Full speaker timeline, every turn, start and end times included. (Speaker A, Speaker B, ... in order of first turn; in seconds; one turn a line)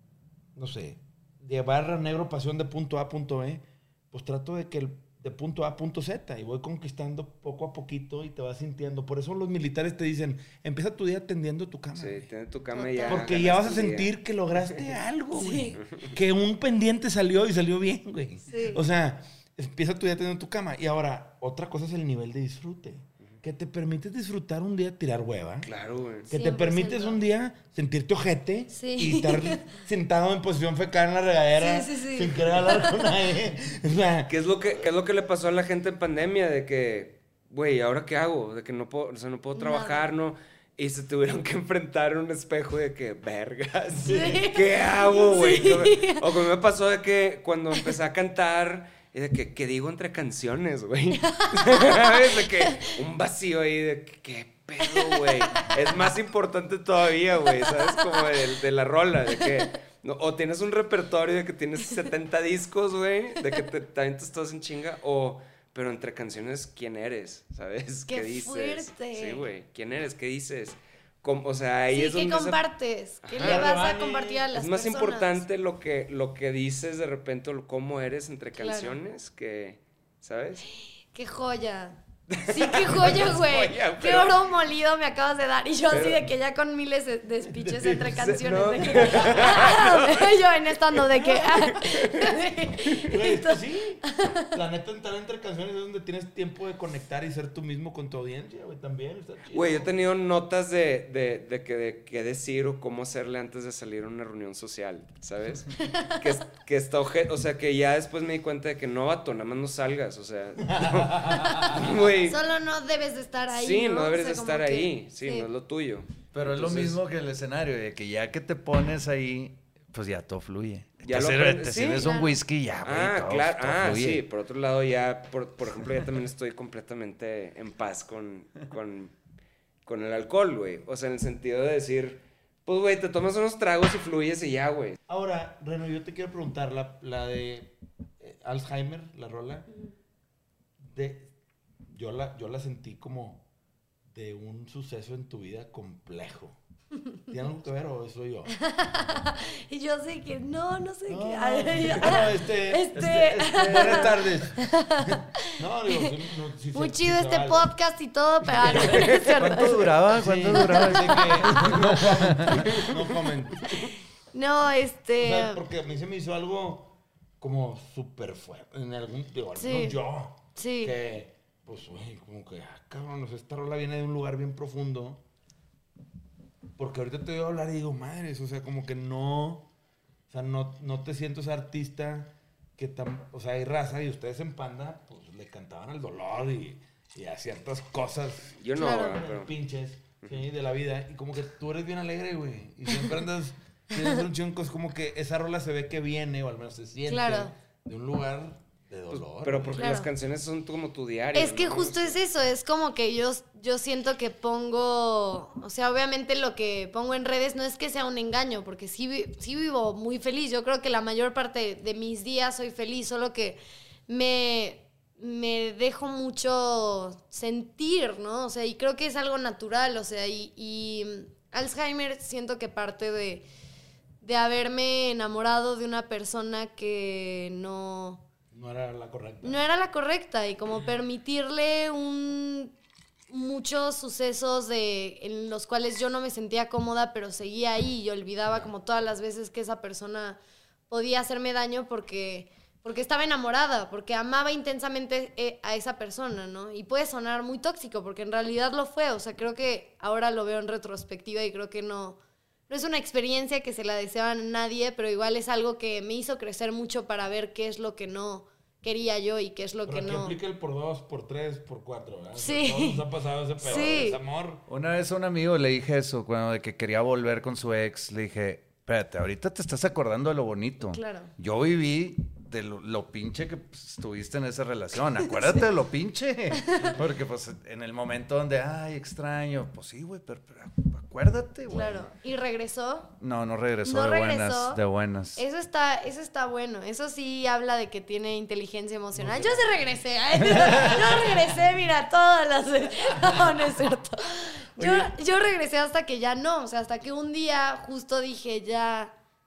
Speaker A: 0.5-12.3
Speaker B: 11.9-14.1
Speaker C: 12.7-13.3
Speaker A: 13.1-25.7
Speaker C: 15.3-15.8
Speaker C: 18.5-18.8
Speaker B: 25.6-26.3
Speaker A: 26.3-34.3
Speaker C: 26.3-27.2
Speaker C: 28.7-29.7
Speaker C: 31.6-33.0
Speaker B: 34.3-72.6
Speaker C: 39.5-40.1
Speaker C: 44.0-46.2
Speaker A: 44.1-44.4
Speaker C: 51.3-52.9
Speaker C: 54.9-55.7
Speaker C: 68.1-69.4
Speaker C: 71.9-75.4
Speaker B: 73.2-73.9
Speaker A: 73.4-74.4
Speaker B: 74.5-80.6
Speaker C: 78.6-78.9
Speaker C: 80.6-94.4
Speaker B: 82.3-84.5
Speaker B: 85.9-86.2
Speaker A: 87.6-89.6
Speaker B: 88.1-90.3
Speaker A: 91.1-91.6
Speaker B: 91.2-92.9
Speaker A: 93.0-99.9
Speaker B: 99.5-112.4
Speaker C: 105.8-106.1
Speaker A: 110.7-111.6
Speaker C: 112.3-115.5
Speaker B: 113.5-117.0
Speaker D: 116.3-124.2
Speaker B: 121.0-122.1
Speaker C: 122.0-122.3
Speaker B: 122.8-129.1
Speaker B: 129.8-135.0
Speaker A: 135.1-139.7
Speaker A: 140.8-141.3
Speaker A: 141.9-143.4
Speaker A: 144.1-146.6
Speaker A: 147.3-148.5
Speaker C: 148.6-155.2
Speaker A: 151.1-157.7
Speaker B: 153.5-154.1
Speaker C: 156.7-161.8
Speaker A: 158.6-163.7
Speaker B: 158.7-159.1
Speaker D: 159.3-162.6
Speaker B: 162.7-163.1
Speaker C: 163.7-165.6
Speaker A: 165.2-175.2
Speaker C: 169.6-170.0
Speaker C: 170.5-171.0
Speaker A: 176.8-179.7
Speaker A: 180.3-199.8
Speaker B: 188.6-189.5
Speaker C: 188.8-189.2
Speaker C: 197.1-197.5
Speaker B: 199.1-202.2
Speaker C: 199.7-200.1
Speaker C: 201.3-223.4
Speaker C: 224.2-228.2
Speaker A: 228.5-229.6
Speaker C: 229.4-232.7
Speaker C: 233.3-260.4
Speaker A: 259.9-264.6
Speaker C: 262.4-263.0
Speaker C: 263.6-264.2
Speaker D: 264.7-282.1
Speaker C: 270.9-271.3
Speaker C: 275.4-275.6
Speaker C: 276.5-277.0
Speaker C: 281.7-283.1
Speaker D: 283.2-285.4
Speaker C: 283.8-284.8
Speaker C: 285.3-299.1
Speaker A: 289.2-289.6
Speaker D: 290.5-291.0
Speaker A: 290.5-291.3
Speaker A: 294.8-295.1